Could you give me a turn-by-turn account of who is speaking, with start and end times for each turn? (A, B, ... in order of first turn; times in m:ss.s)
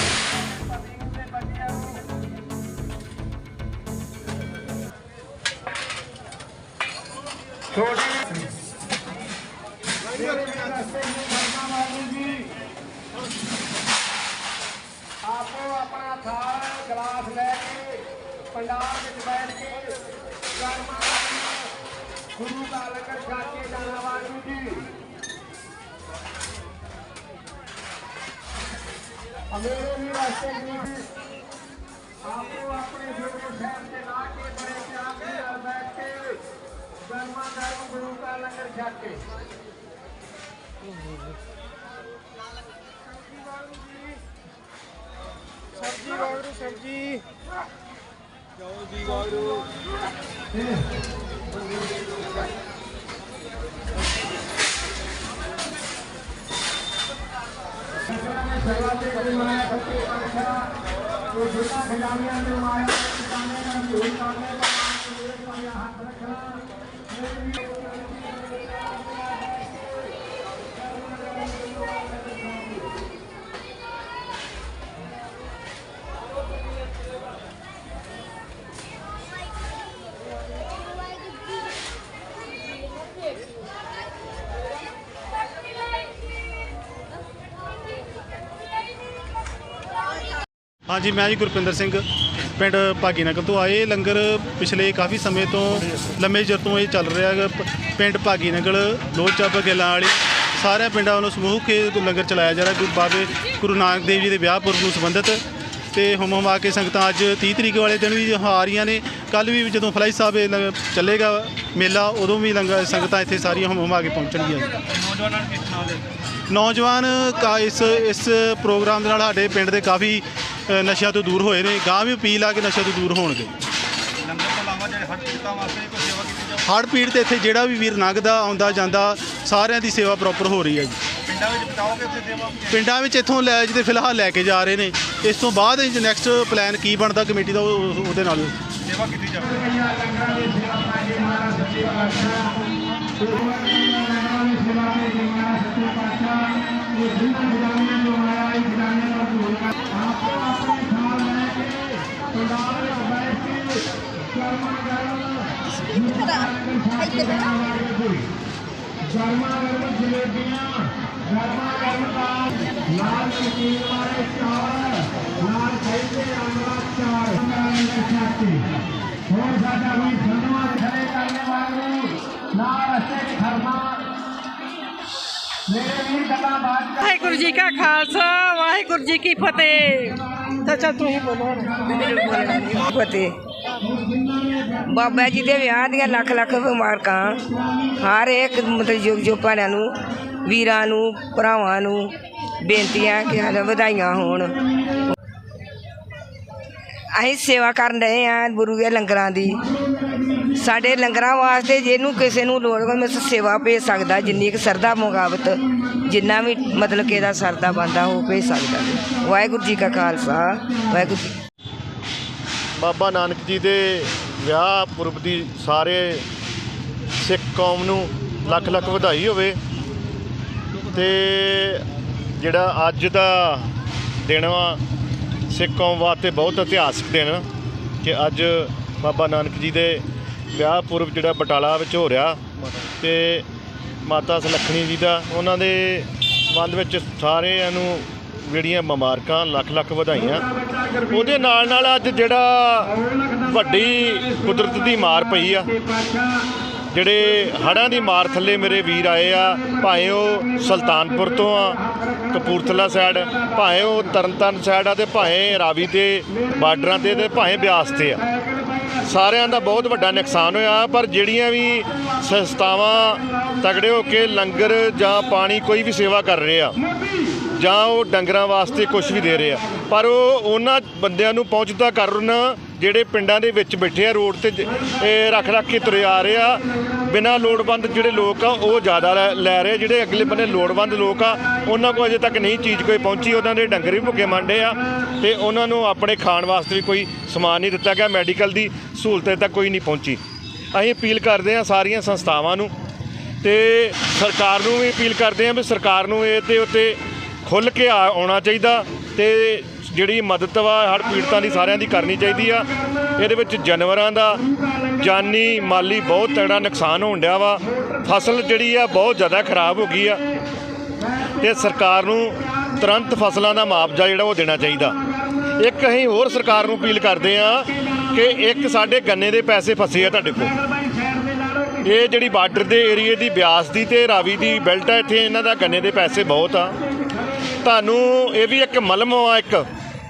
0:10.9-0:12.0 A
0:15.3-0:17.9 A
0:18.7-0:20.0 A
0:20.9-0:21.5 A
0:22.7-0:24.8 A
0:29.6-0:30.9 A
0:32.5-0:35.7 A
0:37.9-0:39.0 A
1:30.9-1:32.0 B
1:32.6-1:54.7 B
1:55.1-1:56.0 C
1:56.5-2:03.5 B
2:04.4-2:06.5 C
2:06.6-2:11.0 B
2:11.3-2:12.6 C
2:12.6-2:18.5 B
2:18.8-2:19.6 C
2:30.2-2:31.7 A
2:32.6-2:33.4 A
2:36.1-2:36.4 D
2:36.8-2:38.0 A
2:39.2-2:40.8 A
2:41.4-2:42.4 A
2:43.0-2:48.3 A
2:49.4-2:52.1 A
2:52.9-2:53.8 A
2:55.8-2:56.8 A
2:56.9-3:01.8 D
3:01.9-3:03.4 E
3:04.8-3:14.6 E
3:17.1-3:19.6 E
3:20.5-3:31.3 E
3:32.8-3:36.2 F
3:37.2-3:39.6 F
3:40.9-3:41.8 F
3:42.4-3:43.7 F
3:44.2-3:44.8 F
3:45.5-3:47.4 F
3:48.0-3:50.0 F
3:50.5-3:53.4 F
3:54.0-4:00.4 F
4:01.1-4:05.7 F
4:06.9-4:18.2 F
4:19.0-4:26.8 F
4:27.6-4:50.2 F
4:50.7-4:52.7 F
4:53.4-5:04.4 F
5:05.0-5:10.2 F
5:11.4-5:15.0 F
5:15.5-5:20.5 F
5:21.8-5:26.8 F
5:27.6-5:29.6 F